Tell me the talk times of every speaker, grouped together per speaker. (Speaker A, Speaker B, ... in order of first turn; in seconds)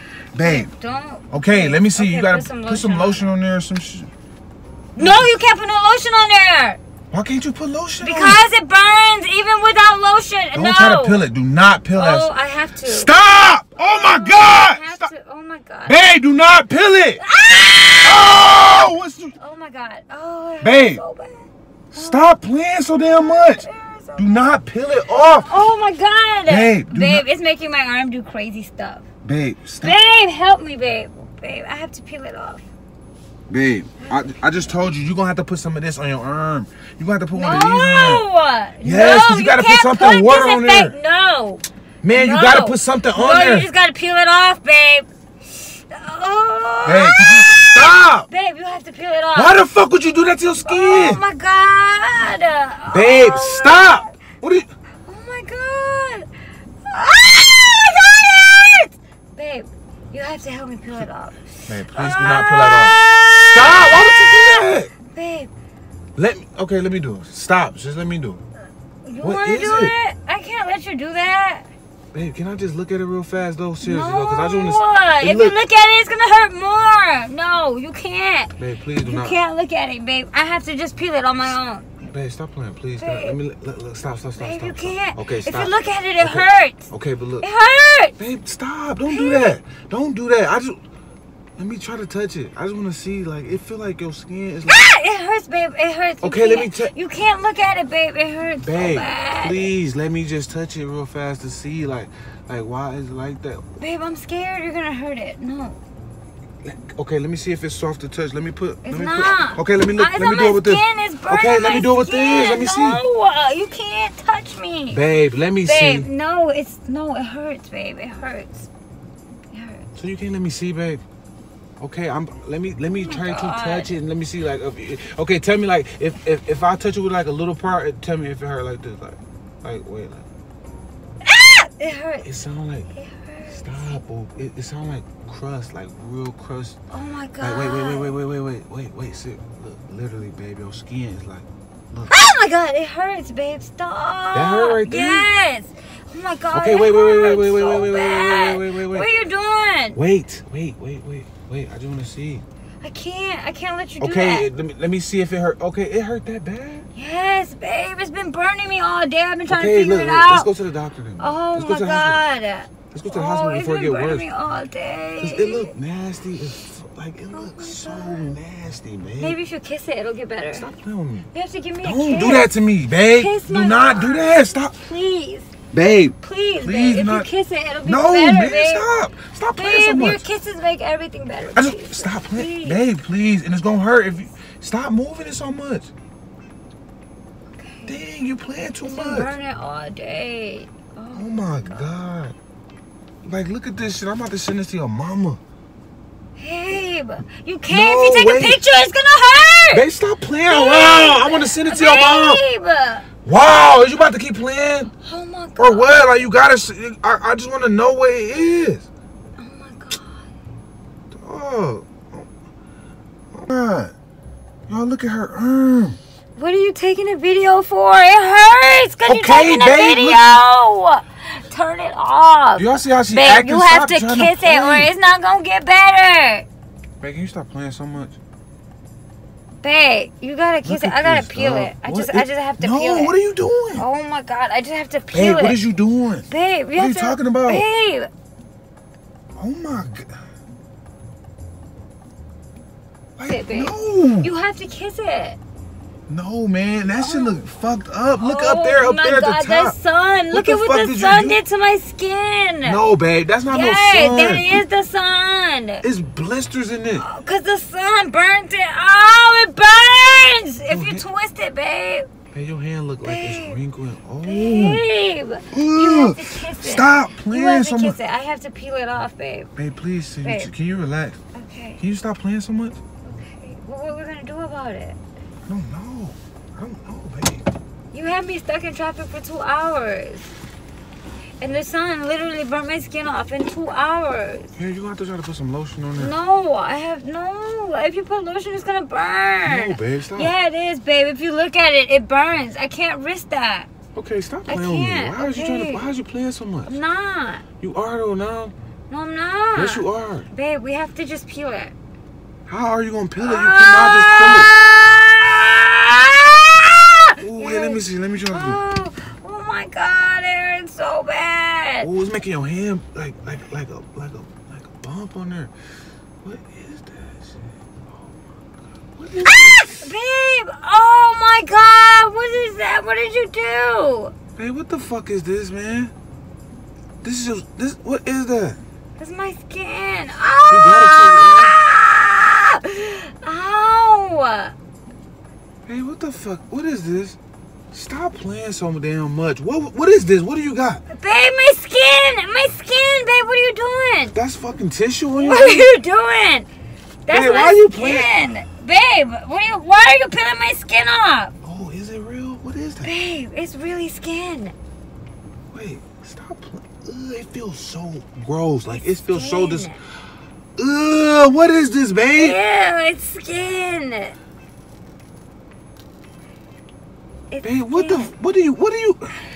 Speaker A: 0.3-0.7, 1.3-4.1, 5.0-5.3, 7.1-8.4, 10.5-12.3, 12.8-15.1, 15.8-17.2, 18.0-19.4, 20.6-21.0, 21.9-25.5, 26.4-27.2, 29.2-30.0, 33.5-38.2, 38.8-40.9, 42.0-43.7, 46.8-48.3, 49.3-51.2, 52.9-54.7, 61.7-64.9, 66.2-68.4, 69.2-69.9, 72.1-75.5, 78.6-79.3, 82.0-87.5, 88.2-90.8, 91.6-94.8, 96.2-96.9, 98.6-103.6, 106.6-113.0, 114.9-116.1, 120.0-121.0, 121.8-130.2, 132.2-132.9, 133.5-136.8, 137.4-142.2, 144.3-145.3, 146.5-149.1, 149.9-152.4, 154.0-156.9, 159.5-162.2, 162.9-164.2, 165.2-169.3, 170.5-171.3, 171.8-174.8, 175.7-177.3, 177.8-180.2, 181.5-185.9, 187.9-189.3, 191.1-192.3, 193.2-195.4, 197.7-198.6, 199.7-202.4, 203.2-204.9, 205.6-208.8, 211.1-212.2, 213.3-213.9, 214.7-216.0, 219.1-220.4, 222.6-224.9, 227.0-228.2, 230.6-233.8, 235.1-237.7, 239.4-240.2, 243.2-244.3, 246.1-249.8, 250.3-251.4, 252.6-254.5, 255.8-257.0, 260.7-261.0, 262.3-264.8, 265.5-268.0, 269.6-271.2, 271.8-272.8, 275.4-277.4, 284.6-286.1, 289.4-290.3, 293.9-296.7, 297.6-298.5, 299.6-300.3, 302.5-304.5, 307.2-308.6, 311.8-315.5, 316.2-319.8, 324.4-325.9, 327.0-328.6, 330.5-331.5, 335.7-337.2, 337.7-340.8, 344.1-345.7, 347.1-348.1, 351.4-352.9, 355.5-359.7, 360.6-362.4, 367.4-369.1
Speaker B: 0.4-3.3, 4.9-6.8, 8.0-11.3, 11.9-13.1, 13.7-16.0, 17.2-18.7, 19.4-22.3, 22.9-24.4, 25.1-29.0, 29.8-32.6, 34.0-34.7, 37.3-49.6, 50.6-54.1, 55.0-56.3, 56.8-65.5, 69.0-71.7, 73.8-81.9, 83.0-83.4, 84.4-86.9, 87.4-88.2, 89.1-89.6, 94.7-99.7, 103.8-105.8, 108.8-115.0, 115.6-118.7, 119.5-119.9, 122.9-123.9, 131.2-132.2, 132.9-134.0, 136.9-138.1, 142.1-150.0, 152.8-154.5, 156.9-160.5, 161.2-165.7, 167.3-168.3, 169.2-170.7, 171.3-172.5, 173.1-175.5, 176.2-178.9, 179.6-182.8, 187.5-188.0, 188.8-191.9, 196.4-199.8, 200.5-203.1, 205.0-206.0, 209.4-210.3, 216.4-226.5, 229.6-233.1, 233.7-235.6, 236.3-238.1, 243.3-245.4, 246.9-247.4, 248.2-252.8, 253.5-255.8, 257.0-262.1, 263.0-263.6, 264.2-269.5, 270.2-270.5, 271.3-271.8, 273.0-275.0, 277.9-280.3, 281.4-284.6, 286.0-293.7, 294.5-295.9, 296.7-297.4, 298.9-301.7, 303.2-311.9, 319.2-324.1, 329.0-334.5, 340.9-344.1, 345.1-346.5, 347.1-351.3, 352.8-354.5, 358.7-359.8, 362.1-364.1, 367.3-368.1